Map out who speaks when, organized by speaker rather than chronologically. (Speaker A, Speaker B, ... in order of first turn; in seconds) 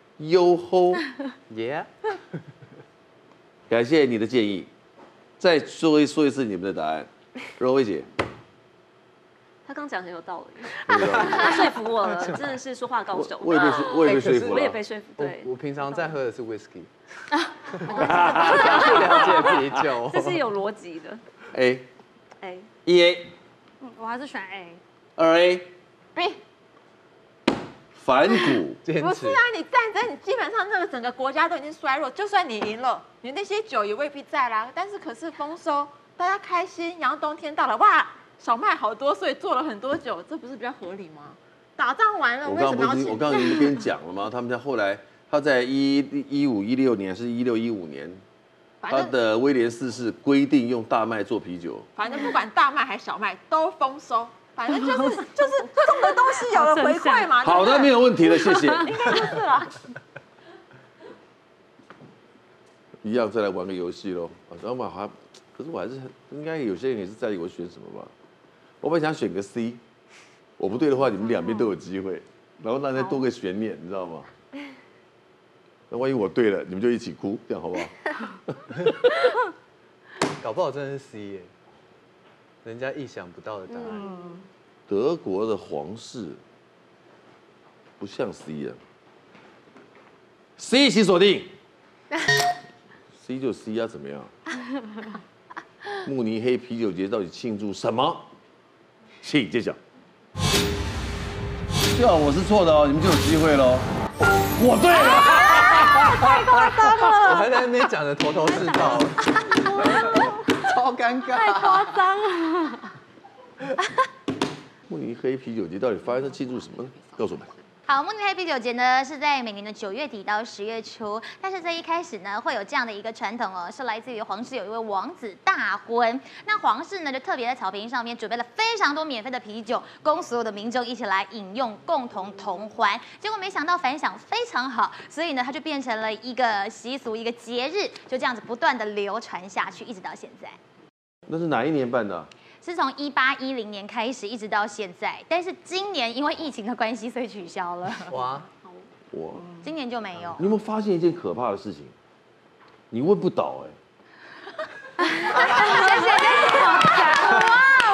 Speaker A: 0.2-1.0, 3.7-4.7, 5.4-8.1, 10.8-11.7, 13.1-14.8, 17.9-19.8, 21.5-21.9, 22.9-23.3, 25.2-25.7, 28.0-28.8, 42.5-48.2, 48.9-51.9, 57.4-59.0, 63.0-68.1, 68.8-69.8, 70.6-74.3, 75.9-77.9, 84.9-86.4, 88.0-88.8, 90.6-91.5, 93.2-94.3, 96.0-98.3, 99.2-99.8, 101.9-103.9, 104.6-107.2, 114.9-117.5, 141.3-142.3, 149.1-149.5, 150.4-151.9, 152.9-153.8
Speaker B: 1.5-1.9, 14.0-16.9, 17.9-20.4, 28.8-29.4, 80.4-81.5, 82.6-84.1, 107.2-109.3, 110.7-111.9, 148.1-148.5
Speaker C: 9.7-16.1, 18.8-19.4, 20.0-21.2, 22.4-22.7
Speaker D: 23.9-24.8, 56.5-57.4, 84.0-84.4, 108.5-109.0, 111.2-112.7, 155.6-155.9, 156.6-157.5
Speaker E: 26.1-26.4, 29.0-43.8, 48.8-49.1, 52.0-58.1, 58.8-59.7, 155.8-156.8
Speaker F: 117.9-140.6, 142.6-148.2, 149.6-150.5, 155.4-156.6